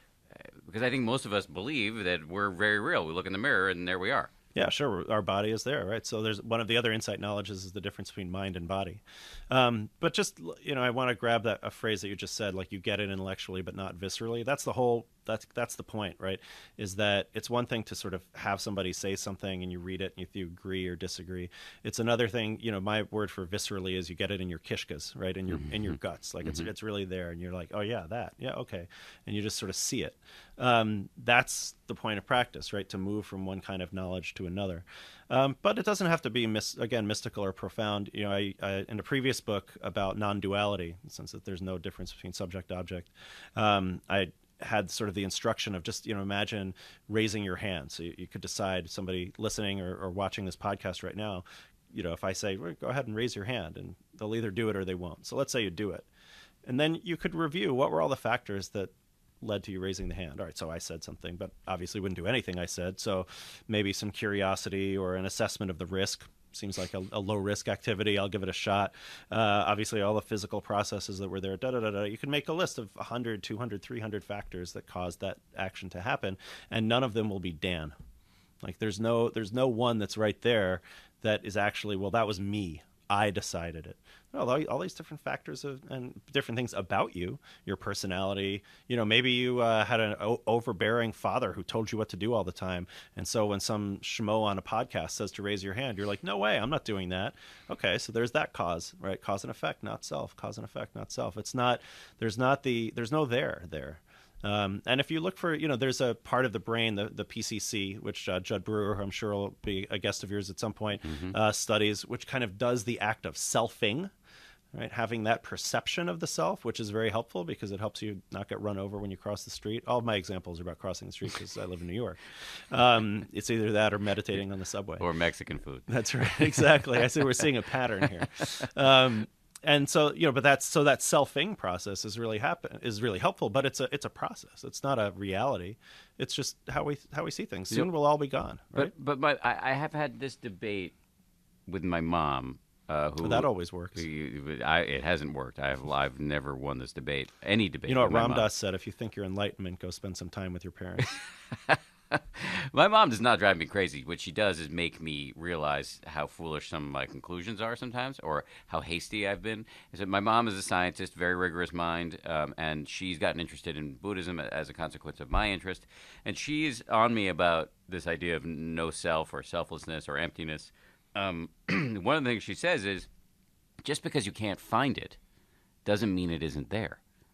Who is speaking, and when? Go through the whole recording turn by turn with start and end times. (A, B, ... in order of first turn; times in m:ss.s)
0:00.3-0:04.3 A
0:04.5-0:56.1 B
0:56.6-1:17.9 B
1:18.6-1:54.1 B
1:51.0-1:51.4 A
1:54.7-2:05.0 B
2:05.0-2:05.9 A
2:05.9-2:18.9 B
2:18.7-2:20.9 A
2:21.7-2:28.5 A
2:23.2-2:24.0 B
2:27.9-2:31.2 B
2:31.5-2:53.1 A
2:53.8-2:55.2 A
2:55.8-2:57.0 A